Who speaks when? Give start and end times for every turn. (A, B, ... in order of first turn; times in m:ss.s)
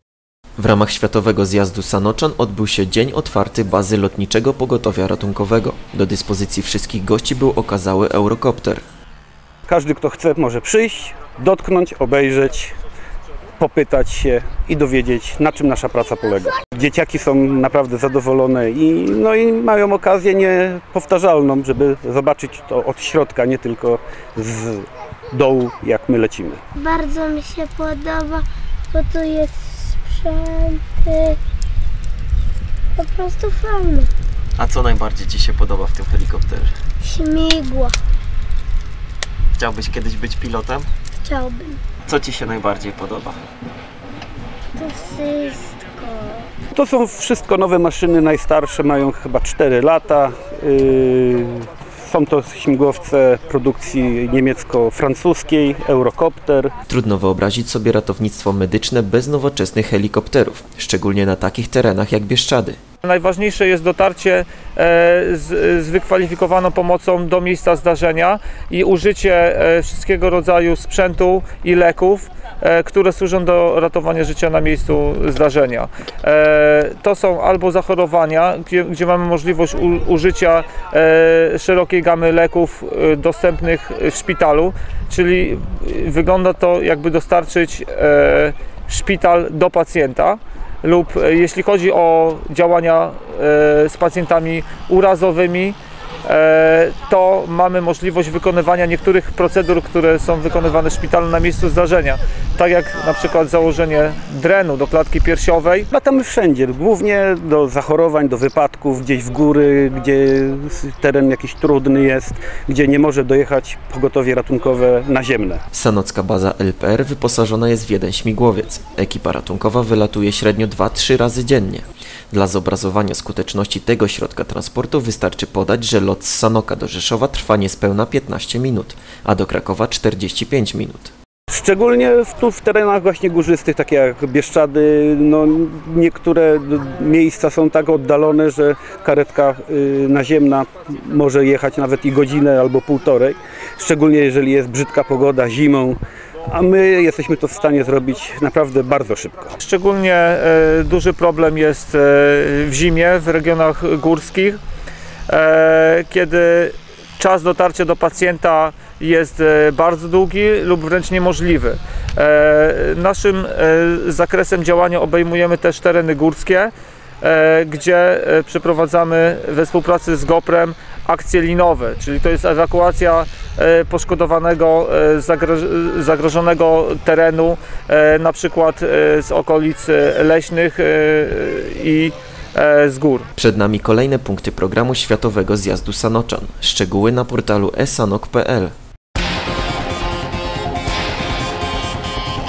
0:00.6-0:08.8 A
0:09.7-0:12.8 B
0:13.6-0:26.6 B
0:26.8-0:31.4 C
0:33.0-0:34.1 C
0:35.4-0:35.8 A
0:36.3-0:36.7 A
0:37.0-0:38.0 C
0:39.7-0:40.6 A
0:41.2-0:41.8 C
0:44.8-0:46.5 C
0:46.7-0:56.7 B
0:56.9-1:02.8 A
1:03.0-1:45.9 D
1:45.9-1:55.6 B
1:55.7-2:11.1 A
2:11.5-2:26.0 B
2:26.5-2:29.6 B
2:29.6-2:34.6 D
2:35.3-3:03.3 D
3:03.4-3:08.8 A